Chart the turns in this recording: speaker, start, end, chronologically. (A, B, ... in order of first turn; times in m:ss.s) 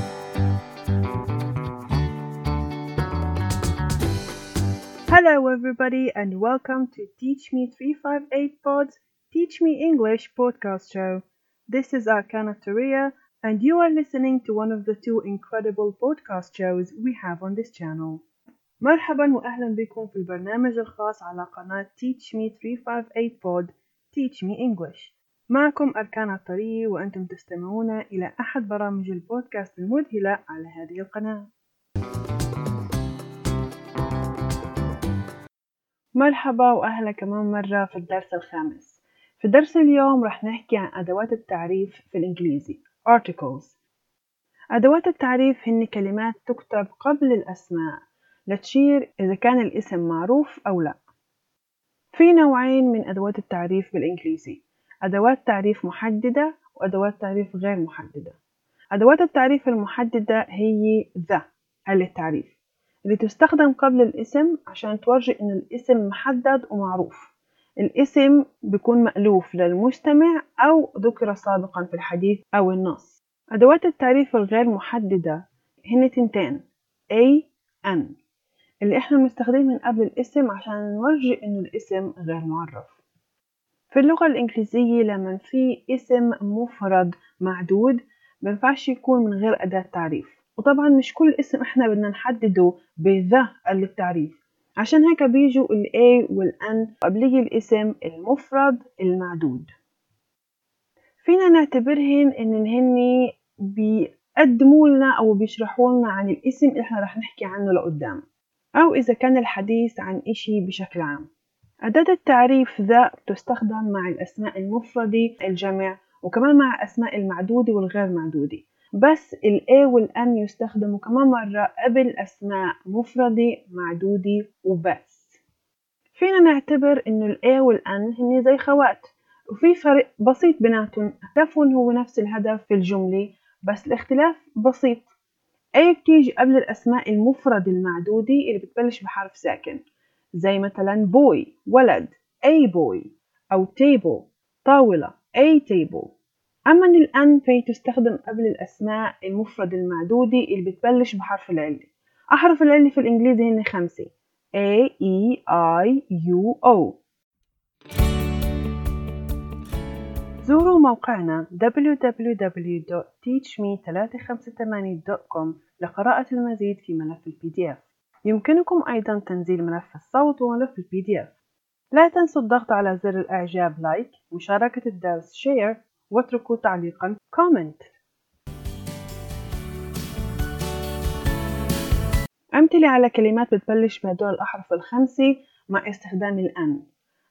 0:05.1-0:18.2 A
0:18.8-0:31.5 A
0:36.2-0:43.8 A
0:44.7-0:51.0 A
0:52.1-0:58.4 A
0:58.9-1:02.5 A
1:03.1-1:18.2 A
1:18.8-1:23.0 A
1:23.9-1:39.7 A
1:41.2-1:48.2 A
1:48.8-1:51.3 A
1:51.9-2:05.4 A
2:06.1-2:15.1 A
2:15.8-2:19.8 A
2:20.4-2:26.1 A
2:26.7-2:37.0 A
2:40.4-2:51.3 A
2:51.9-2:57.9 A
3:02.5-3:06.8 A